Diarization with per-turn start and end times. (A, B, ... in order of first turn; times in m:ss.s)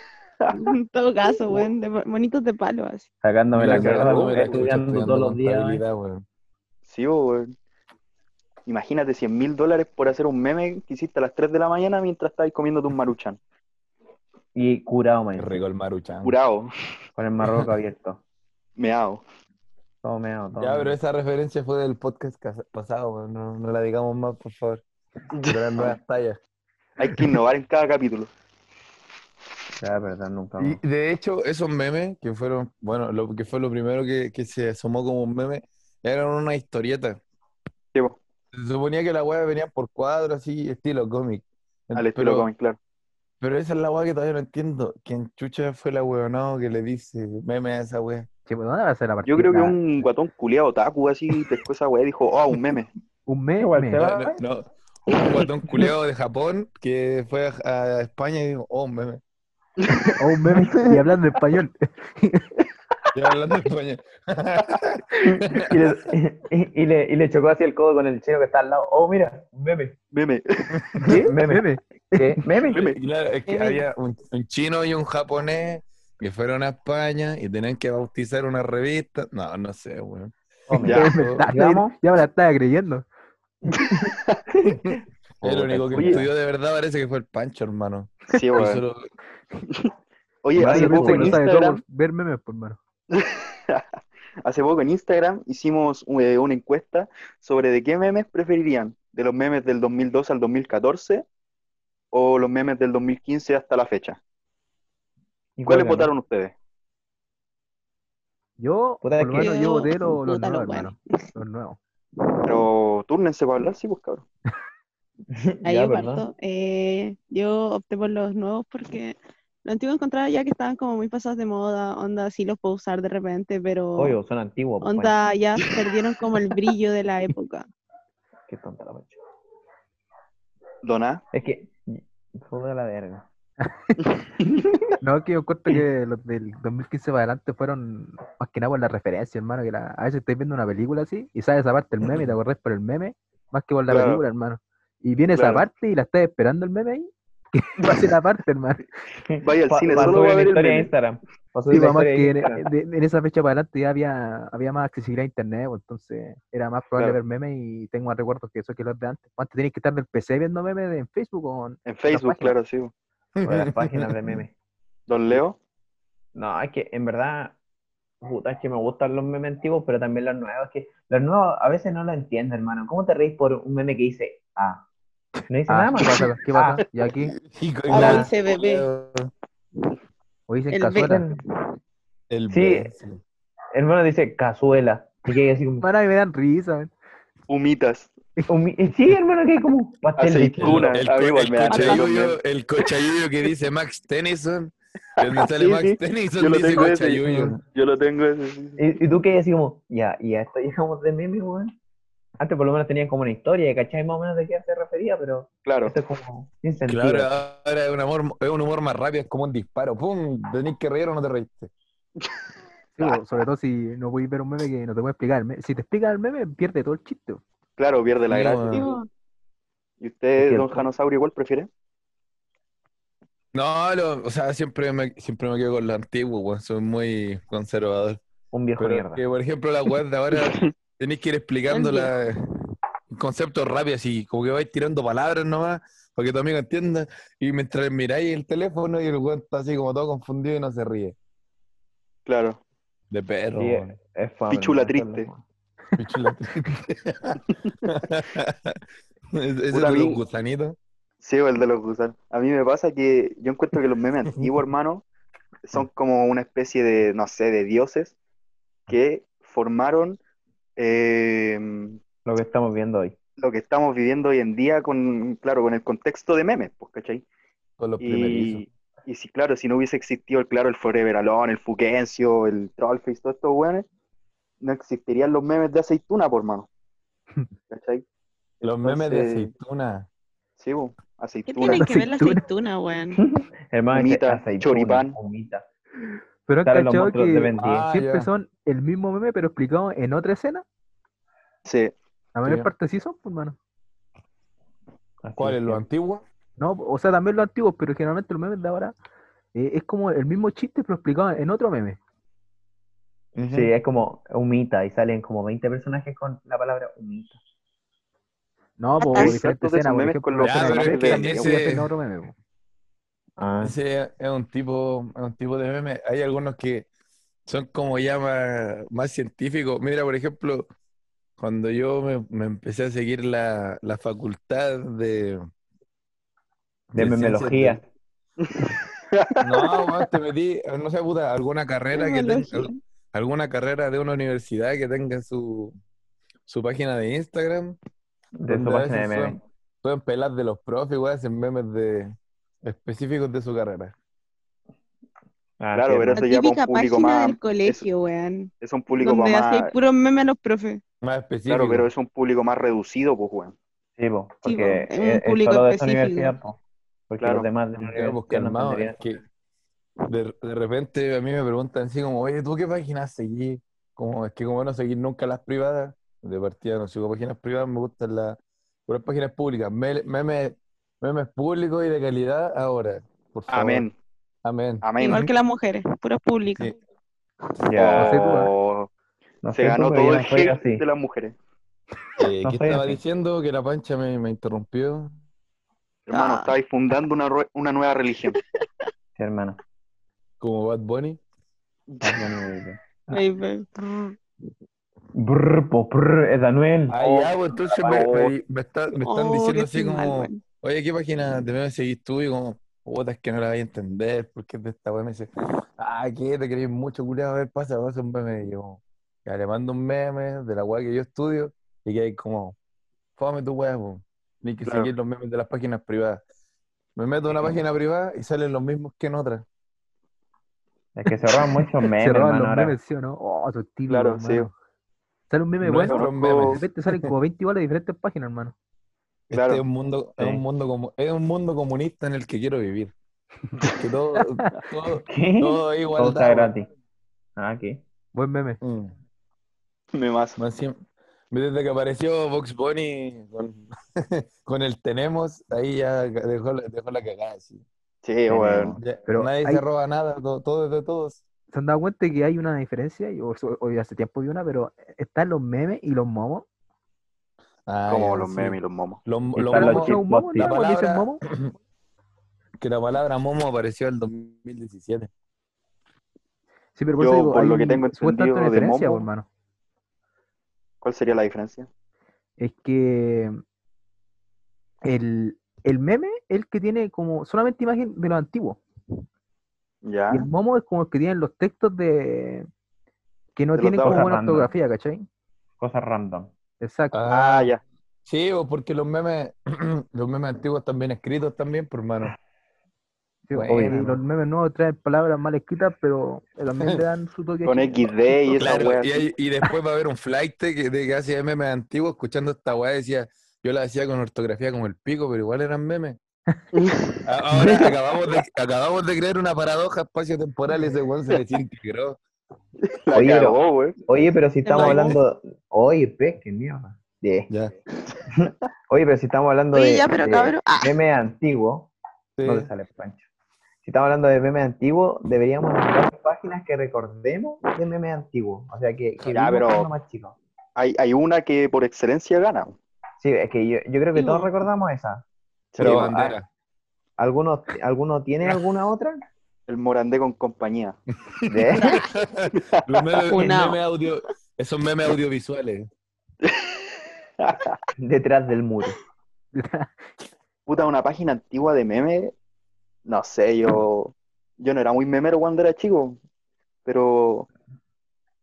0:00.5-0:03.1 A
0:03.2-0:05.8 B
0:03.5-0:06.2 C
0:03.7-0:04.6 D
0:06.9-0:07.5 D
0:08.6-0:13.4 D
0:14.5-0:15.6 B
0:15.4-0:16.3 C
0:16.2-0:16.7 D
0:17.2-0:18.2 B
0:18.8-0:19.2 D
0:20.0-0:21.0 B
0:20.6-0:24.8 C
0:25.3-0:26.0 D
0:25.5-0:26.4 C
0:27.0-0:28.3 D
0:29.8-0:30.8 B
0:30.6-0:37.2 C
0:37.9-0:38.2 D
0:38.5-0:42.5 C
0:41.9-0:42.8 D
0:43.4-0:48.3 C
0:48.5-0:49.8 E
0:49.2-0:52.9 D
0:53.3-0:54.0 E
0:53.6-0:54.4 B
0:54.0-0:59.2 C
0:59.8-1:00.1 D
1:00.2-1:02.6 E
1:00.5-1:00.9 B
1:03.1-1:05.9 C
1:05.7-1:10.0 B
1:10.1-1:10.8 D
1:11.0-1:12.2 E
1:11.0-1:12.8 B
1:12.7-1:13.0 D
1:12.7-1:21.5 C
1:13.5-1:13.8 A
1:20.7-1:22.0 B
1:20.7-1:23.0 E
1:20.8-1:21.1 D
1:23.8-1:24.4 D
1:24.6-1:29.0 C
1:25.4-1:26.3 B
1:25.9-1:26.2 D
1:28.3-1:28.8 D
1:30.4-1:31.8 D
1:30.6-1:32.8 E
1:30.6-1:31.3 C
1:30.7-1:31.4 B
1:33.1-1:33.8 D
1:34.4-1:41.2 D
1:42.1-1:44.2 D
1:45.6-1:46.1 B
1:45.6-1:46.5 D
1:48.6-1:51.8 E
1:49.0-1:49.7 B
1:49.4-1:51.0 A
1:52.2-1:52.6 A
1:52.4-1:54.2 D
1:55.3-1:56.2 B
1:55.6-2:04.2 A
2:04.0-2:05.2 B
2:04.8-2:07.6 A
2:08.5-2:09.2 B
2:10.8-2:11.2 D
2:11.3-2:13.2 B
2:13.6-2:14.0 E
2:14.2-2:14.6 D
2:15.0-2:28.8 E
2:23.9-2:24.2 D
2:25.4-2:25.6 D
2:29.3-2:32.7 B
2:29.4-2:30.9 D
2:31.7-2:42.6 E
2:41.8-2:42.9 D
2:43.4-2:44.1 C
2:43.4-2:44.5 B
2:45.1-2:45.6 D
2:46.3-2:47.6 B
2:48.2-2:54.8 B
2:55.5-2:56.8 B
2:55.7-2:57.4 E
2:57.2-2:59.3 C
2:57.9-2:58.9 A
2:57.9-2:58.3 E
3:00.5-3:01.3 E
3:00.7-3:01.3 A
3:01.0-3:01.4 B
3:02.3-3:03.2 C
3:02.5-3:02.9 B
3:03.7-3:05.9 B
3:05.8-3:06.9 E
3:07.5-3:08.1 D
3:08.5-3:11.0 B
3:10.2-3:12.4 D
3:10.6-3:17.6 C
3:11.7-3:12.0 B
3:15.2-3:18.8 D
3:18.8-3:21.8 B
3:22.4-3:27.3 B
3:25.6-3:26.0 D
3:26.9-3:31.7 C
3:33.0-3:37.4 E
3:37.8-3:39.0 D
3:38.3-3:38.8 C
3:38.7-3:39.1 A
3:40.0-3:41.7 D
3:40.4-3:40.8 B
3:43.5-3:48.2 C
3:48.5-3:49.2 B
3:48.8-3:52.4 C
3:50.3-3:50.7 D
3:51.7-3:52.1 A
3:53.1-4:01.1 C
4:02.2-4:02.6 D
4:03.1-4:04.0 C
4:03.5-4:05.4 B
4:04.5-4:05.3 D
4:06.0-4:08.8 C
4:09.3-4:10.8 C
4:09.7-4:10.2 D
4:11.2-4:15.0 D
4:15.6-4:18.1 D
4:18.9-4:20.2 D
4:20.8-4:22.0 D
4:22.2-4:23.2 B
4:23.4-4:27.2 D
4:27.8-4:28.6 C
4:28.0-4:33.8 D
4:34.6-4:36.7 D
4:37.7-4:38.0 D
4:38.6-4:39.5 D
4:38.6-4:40.1 C
4:40.6-4:41.8 D
4:41.5-4:43.2 A
4:41.6-4:42.4 E
4:43.1-4:45.6 B
4:43.9-4:45.2 D
4:46.4-4:50.6 E
4:46.6-4:47.9 B
4:47.6-4:48.3 C
4:51.6-4:51.9 D
4:52.3-4:53.6 E
4:52.4-4:52.7 C
4:55.2-4:55.8 B
4:55.4-4:56.2 C
4:56.6-4:58.9 E
4:59.5-5:02.0 E
5:03.4-5:07.4 B
5:03.4-5:03.7 C
5:08.8-5:12.3 E
5:09.0-5:09.4 A
5:09.1-5:11.5 D
5:10.4-5:11.9 C
5:13.4-5:13.8 B
5:13.6-5:16.9 C
5:17.4-5:20.7 C
5:21.4-5:25.4 C
5:26.9-5:27.8 C
5:26.9-5:27.8 B
5:28.4-5:29.9 D
5:29.4-5:35.7 C
5:31.9-5:32.8 A
5:36.4-5:37.8 C
5:38.4-5:39.4 B
5:38.5-5:43.9 C
5:45.6-5:46.2 B
5:45.7-5:47.8 D
5:46.2-5:50.8 A
5:48.6-5:49.7 D
5:51.0-5:51.9 C
5:51.5-5:53.5 D
5:54.0-5:59.2 B
5:54.4-5:56.3 A
5:57.2-5:57.5 D
5:57.8-5:59.2 C
6:00.0-6:13.9 C
6:13.5-6:13.9 D
6:14.4-6:14.8 C
6:14.8-6:15.3 D
6:15.0-6:16.7 A
6:17.6-6:18.4 B
6:17.7-6:18.9 D
6:18.0-6:18.5 E
6:19.4-6:20.8 B
6:19.5-6:21.3 D
6:22.2-6:25.1 C
6:22.4-6:23.0 B
6:26.1-6:28.4 D
6:26.1-6:26.5 A
6:28.4-6:28.6 A
6:29.2-6:29.6 B
6:30.4-6:31.2 C
6:31.9-6:32.3 D
6:32.0-6:33.2 B
6:33.1-6:34.2 A
6:35.1-6:37.4 B
6:36.9-6:52.6 C
6:37.8-6:38.3 D
6:39.0-6:40.4 A
6:53.2-6:56.2 C
6:54.6-6:54.9 D
6:57.0-6:59.4 C
7:00.9-7:02.8 B
7:02.0-7:04.5 E
7:03.9-7:04.5 D
7:05.3-7:08.5 E
7:05.6-7:07.1 C
7:05.8-7:06.6 D
7:09.3-7:12.9 C
7:09.3-7:09.6 D
7:10.2-7:10.4 B
7:13.8-7:16.5 C
7:14.2-7:14.4 E
7:15.1-7:16.7 B
7:17.4-7:17.8 B
7:18.1-7:18.6 E
7:18.6-7:18.9 C
7:19.9-7:20.4 D
7:20.4-7:20.8 C
7:21.3-7:27.6 C
7:28.0-7:28.8 D
7:28.3-7:31.2 C
7:28.3-7:28.8 B
7:29.0-7:29.6 E
7:31.5-7:36.4 E
7:37.7-7:41.5 C
7:37.9-7:39.0 D
7:39.3-7:40.5 B
7:39.5-7:41.2 E
7:42.6-7:45.1 C
7:46.8-7:49.2 E
7:47.0-7:49.1 D
7:50.8-7:51.7 D
7:52.4-7:53.4 E
7:54.8-7:58.6 E
7:59.8-8:00.3 D
8:00.1-8:02.5 E
8:03.3-8:05.1 E
8:03.5-8:04.0 D
8:03.8-8:04.5 B
8:05.6-8:06.3 B
8:06.6-8:07.0 E
8:06.9-8:07.5 C
8:07.1-8:07.6 D
8:08.0-8:12.1 C
8:13.3-8:18.6 E
8:13.3-8:14.0 C
8:13.5-8:14.0 B
8:17.4-8:19.1 D
8:18.3-8:26.0 C
8:26.5-8:27.0 D
8:27.0-8:32.0 C
8:32.7-8:33.8 D
8:32.9-8:37.3 B
8:34.4-8:35.0 A
8:34.7-8:35.0 C
8:38.1-8:41.7 B
8:39.5-8:40.7 A
8:42.2-8:42.5 C
8:42.2-8:43.0 B
8:43.6-8:50.2 B
8:49.1-8:49.7 D
8:50.6-8:52.5 D
8:53.0-8:55.0 B
8:53.9-8:54.3 A
8:55.5-8:55.9 D
8:55.6-8:56.2 B
8:55.6-8:56.2 C
8:57.0-8:59.0 B
8:59.5-9:00.8 D
9:01.1-9:05.7 C
9:01.3-9:01.8 B
9:02.7-9:03.1 D
9:03.1-9:03.6 A
9:06.2-9:06.6 D
9:07.2-9:07.6 D
9:07.8-9:08.8 B
9:09.3-9:09.7 E
9:10.5-9:12.1 D
9:12.8-9:16.0 D
9:16.6-9:17.3 D